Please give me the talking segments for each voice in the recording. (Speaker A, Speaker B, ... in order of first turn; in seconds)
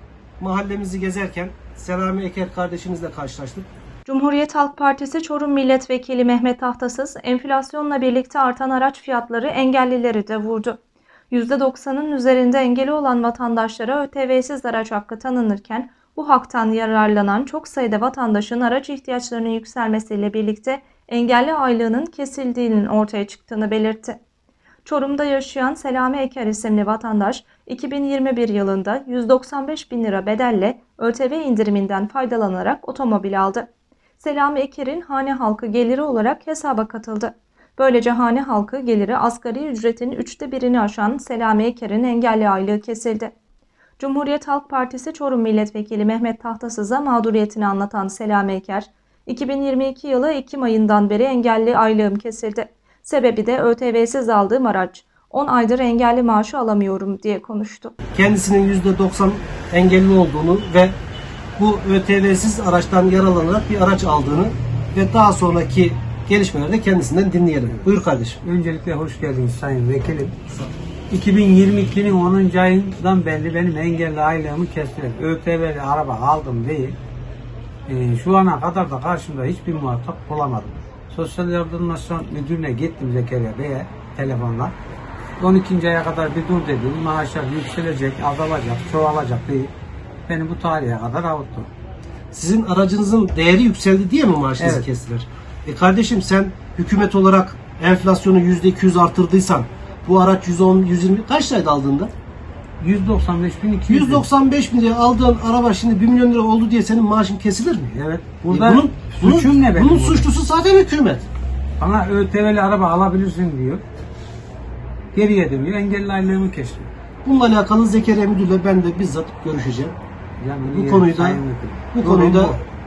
Speaker A: 0.4-3.7, 58.1-61.0, 61.6-68.4, 92.3-102.1, 103.9-111.3, 117.2-120.0, 120.7-122.6
Speaker B: 4.1-10.8, 11.3-24.2, 24.9-33.7, 34.2-43.3, 44.0-58.0
Speaker C: 68.4-70.4, 71.1-77.0, 77.9-84.8, 85.4-89.7, 90.3-91.7, 94.6-94.9, 102.8-104.3, 108.2-110.3, 111.8-113.8, 115.1-116.9, 120.4-122.6